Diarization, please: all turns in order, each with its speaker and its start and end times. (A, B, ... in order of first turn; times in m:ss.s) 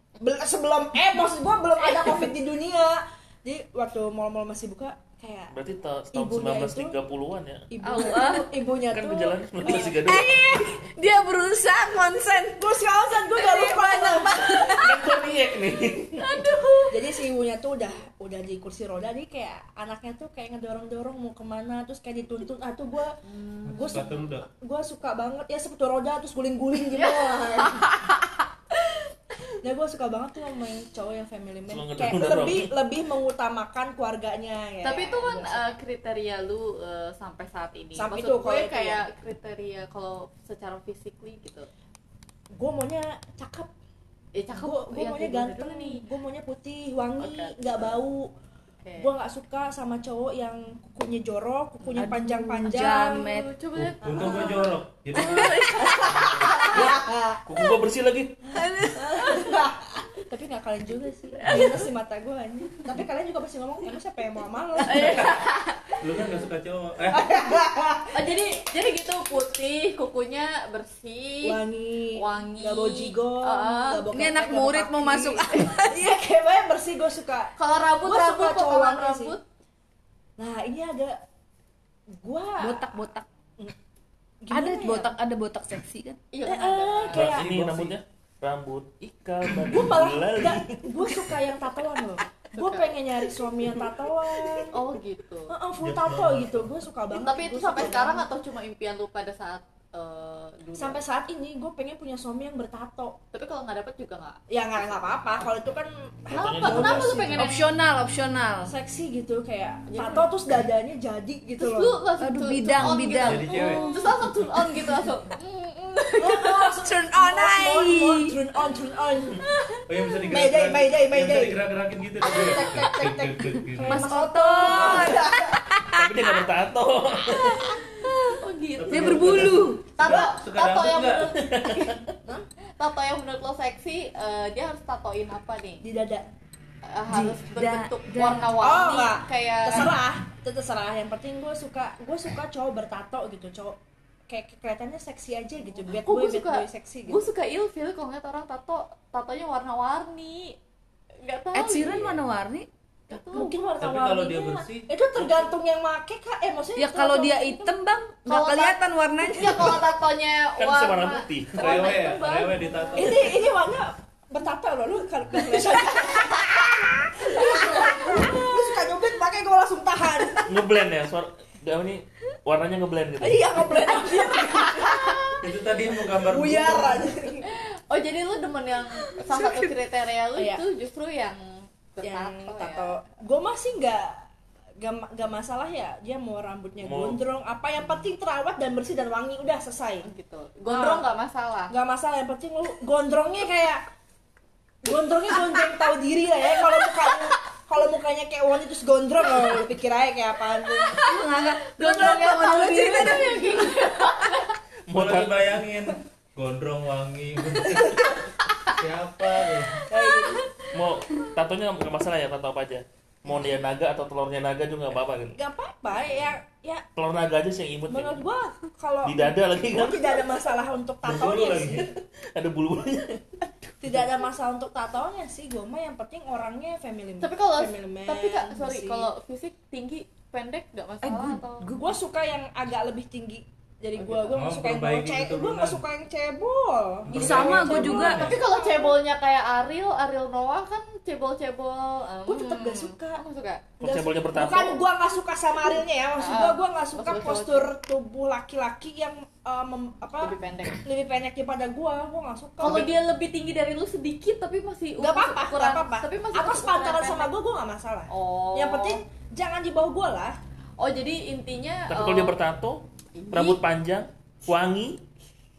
0:00.2-0:05.5 A
0:01.8-0:02.3 B
0:05.5-0:07.7 C
0:06.1-0:07.0 A
0:07.7-0:10.0 A
0:07.8-0:08.5 B
0:08.8-0:10.5 C
0:09.7-0:09.9 B
0:10.0-0:12.6 D
0:12.6-0:14.8 A
0:13.4-0:14.8 B
0:13.4-0:15.1 D
0:14.7-0:16.5 C
0:16.2-0:17.1 B
0:16.9-0:23.2 A
0:23.2-0:24.1 B
0:23.7-0:24.5 E
0:23.7-0:27.9 A
0:26.9-0:29.0 B
0:29.6-0:35.7 A
0:31.7-0:32.7 C
0:34.8-0:41.7 B
0:38.0-0:39.0 A
0:42.5-0:43.7 A
0:44.3-0:46.0 B
0:44.5-0:48.3 A
0:47.2-0:48.0 B
0:48.8-0:49.1 B
0:49.0-0:53.3 A
0:51.8-0:52.1 B
0:52.0-0:53.5 D
0:52.8-0:56.3 B
0:53.7-0:56.7 E
0:54.1-0:54.5 A
0:55.1-0:56.3 D
0:55.8-0:57.4 A
0:56.6-0:58.5 C
0:58.5-0:59.6 D
0:58.6-1:05.4 A
1:01.4-1:01.9 B
1:04.8-1:06.0 B
1:05.0-1:05.3 E
1:06.0-1:07.3 E
1:07.1-1:08.2 A
1:08.1-1:11.6 B
1:11.4-1:19.4 A
1:12.1-1:14.4 B
1:14.1-1:16.0 D
1:17.6-1:19.4 B
1:20.4-1:21.2 A
1:22.2-1:23.0 A
1:22.6-1:23.2 D
1:24.4-1:25.1 A
1:24.5-1:26.2 D
1:26.3-1:27.4 B
1:26.4-1:27.9 A
1:27.1-1:31.4 C
1:29.7-1:34.7 A
1:32.5-1:32.9 B
1:34.7-1:35.5 B
1:35.5-1:38.3 A
1:35.8-1:36.7 E
1:37.1-1:41.0 B
1:40.8-1:43.2 A
1:43.3-1:44.4 B
1:44.5-1:47.5 A
1:46.3-1:47.7 B
1:46.3-1:47.2 C
1:47.4-1:48.7 D
1:48.6-1:52.0 A
1:49.9-1:50.3 B
1:51.6-1:56.7 B
1:52.2-1:54.2 D
1:52.8-1:53.8 E
1:56.2-1:59.6 A
1:56.7-1:58.3 D
1:59.4-1:59.8 B
1:59.8-2:04.1 E
2:00.3-2:01.6 A
2:02.2-2:06.4 D
2:02.3-2:05.6 A
2:05.9-2:07.8 C
2:07.3-2:08.4 D
2:08.0-2:12.0 B
2:08.8-2:11.3 E
2:08.9-2:09.8 D
2:11.4-2:12.0 C
2:12.8-2:15.8 B
2:15.8-2:16.3 A
2:16.9-2:19.9 B
2:17.1-2:18.7 D
2:18.6-2:23.8 A
2:24.3-2:27.2 A
2:25.7-2:30.6 B
2:31.2-2:32.2 B
2:31.5-2:32.7 D
2:33.1-2:33.7 B
2:33.3-2:37.8 A
2:33.8-2:34.9 E
2:36.8-2:39.8 D
2:38.3-2:43.4 B
2:40.6-2:41.9 C
2:41.6-2:43.4 E
2:43.0-2:50.8 A
2:47.4-2:48.4 B
2:50.5-2:53.9 C
2:53.2-2:55.3 A
2:54.0-2:55.4 B
2:55.4-2:57.1 E
2:56.2-2:57.5 A
2:57.4-3:03.0 B
2:59.1-2:59.7 D
3:00.4-3:00.6 A
3:02.0-3:04.2 A
3:04.8-3:10.1 A
3:06.8-3:07.2 C
3:10.0-3:11.7 B
3:10.7-3:11.1 A
3:11.7-3:13.8 A
3:14.8-3:21.0 A
3:20.6-3:24.6 B
3:21.0-3:24.4 D
3:22.0-3:23.4 A
3:24.9-3:25.4 C
3:24.9-3:29.8 E
3:29.9-3:30.5 A
3:29.9-3:30.5 B
3:30.7-3:35.4 C
3:35.4-3:36.8 A
3:37.0-3:38.2 C
3:37.9-3:41.9 A
3:39.0-3:40.3 C
3:41.0-3:41.9 E
3:41.9-3:43.9 C
3:43.8-3:49.1 A
3:47.2-3:51.7 B
3:51.0-3:51.8 D
3:51.6-3:59.0 A
3:54.0-3:54.3 B
3:54.3-3:55.8 E
3:57.1-3:58.2 D
3:57.1-3:58.4 E
3:57.8-4:03.6 B
4:02.3-4:03.2 A
4:03.8-4:04.8 C
4:03.8-4:13.0 A
4:05.7-4:07.7 B
4:10.2-4:10.8 B
4:12.6-4:17.3 B
4:12.6-4:12.9 C
4:15.0-4:20.4 A
4:18.1-4:19.0 B
4:20.8-4:22.4 B
4:21.9-4:25.0 C
4:23.2-4:23.6 B